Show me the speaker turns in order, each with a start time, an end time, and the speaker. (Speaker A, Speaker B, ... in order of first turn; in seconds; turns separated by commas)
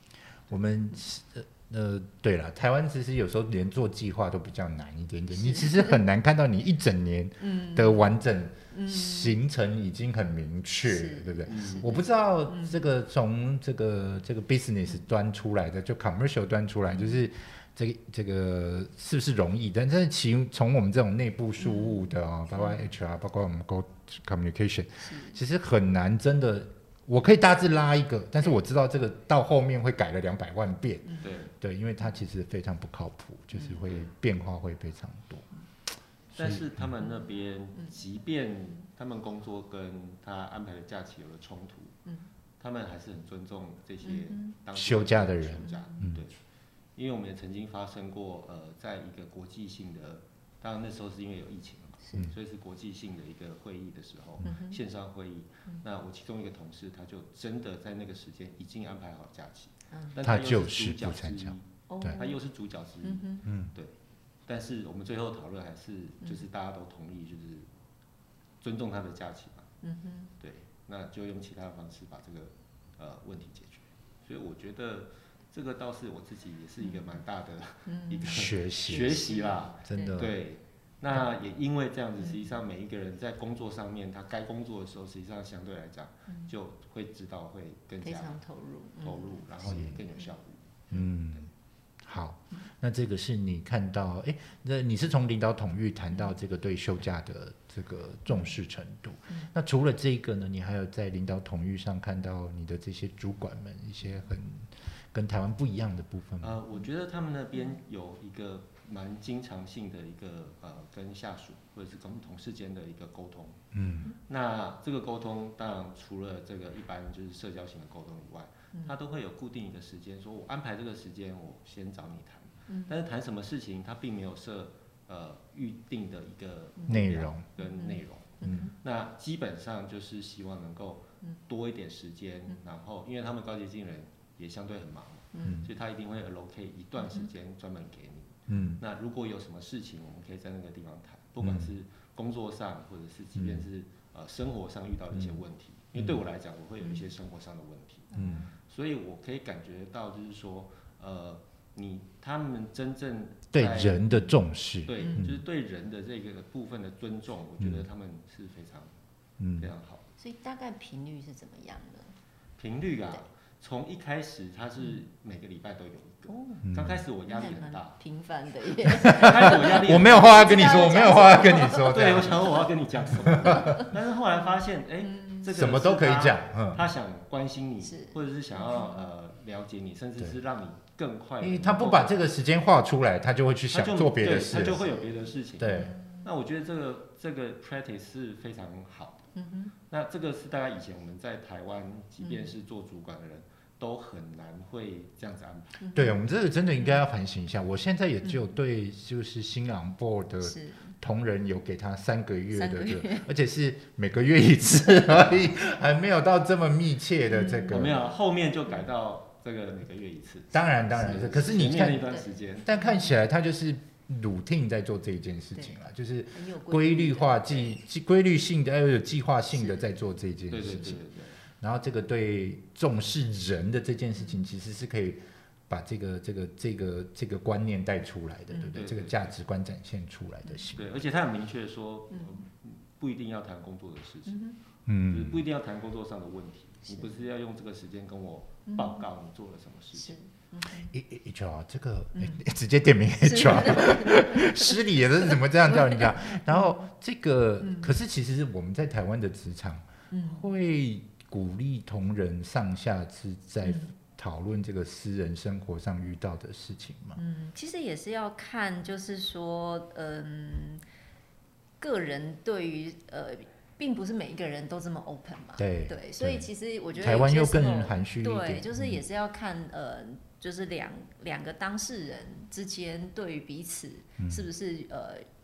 Speaker A: 0.5-35.5, Speaker B: 5.4-6.0, Speaker B: 7.4-8.1, Speaker B: 8.7-9.4, Speaker B: 10.8-12.8, Speaker C: 11.5-11.9, Speaker B: 21.6-22.1, Speaker B: 25.0-25.4, Speaker C: 31.2-31.5, Speaker A: 36.3-36.7, Speaker C: 36.3-42.0, Speaker C: 42.6-46.3, Speaker B: 44.0-44.5, Speaker A: 44.8-46.2, Speaker B: 45.7-46.0, Speaker C: 47.0-63.9, Speaker B: 54.4-54.8, Speaker A: 60.2-62.2, Speaker B: 61.9-62.4, Speaker B: 63.0-63.4, Speaker A: 63.4-63.7, Speaker C: 64.5-67.7, Speaker C: 68.6-69.7, Speaker B: 69.8-70.3, Speaker C: 70.4-88.4, Speaker B: 77.9-80.2, Speaker A: 78.2-79.2, Speaker A: 79.8-80.3, Speaker B: 88.0-89.9, Speaker C: 89.0-90.8, Speaker A: 89.6-90.0, Speaker A: 90.9-91.5, Speaker A: 92.0-106.6, Speaker C: 106.4-113.6, Speaker A: 113.7-114.1, Speaker C: 114.3-148.1, Speaker A: 126.9-127.5, Speaker B: 127.6-128.7, Speaker A: 128.4-128.7, Speaker B: 135.3-135.6, Speaker A: 135.4-135.7, Speaker A: 138.5-138.8, Speaker A: 141.4-141.7, Speaker A: 143.4-143.6, Speaker A: 145.1-145.4, Speaker B: 148.1-148.5, Speaker A: 148.1-148.4, Speaker C: 148.6-154.1, Speaker A: 153.5-155.4, Speaker C: 154.8-158.9, Speaker A: 159.4-159.7, Speaker C: 159.6-160.0, Speaker B: 160.2-162.1, Speaker C: 162.6-168.0, Speaker B: 166.3-166.6, Speaker A: 166.6-167.0, Speaker B: 167.3-172.4, Speaker A: 168.9-172.6, Speaker C: 169.0-170.9, Speaker C: 171.7-182.2, Speaker A: 173.1-173.8, Speaker B: 173.5-173.9, Speaker B: 175.0-175.4, Speaker A: 175.5-176.8, Speaker B: 177.8-179.0, Speaker A: 181.4-184.8, Speaker C: 183.7-189.3, Speaker A: 185.6-185.9, Speaker B: 185.6-186.2, Speaker B: 189.3-189.7, Speaker C: 189.9-195.8, Speaker B: 195.8-196.2, Speaker A: 195.9-208.0, Speaker B: 200.4-200.9, Speaker B: 202.5-203.3, Speaker B: 207.3-207.8, Speaker C: 207.7-212.7, Speaker A: 210.5-212.1, Speaker A: 212.6-221.0, Speaker B: 216.3-217.7, Speaker C: 220.5-221.4, Speaker A: 221.6-230.9, Speaker C: 228.7-229.3, Speaker C: 230.7-234.4, Speaker B: 234.3-234.6, Speaker A: 234.9-235.4, Speaker C: 235.1-240.2, Speaker B: 238.7-239.0, Speaker B: 240.0-240.9, Speaker A: 240.7-257.2, Speaker B: 243.2-244.8, Speaker B: 245.7-246.8, Speaker B: 247.6-247.9, Speaker B: 250.1-250.4, Speaker B: 253.6-253.9, Speaker B: 257.2-260.8, Speaker B: 261.8-275.2, Speaker A: 265.6-269.0, Speaker A: 274.2-274.5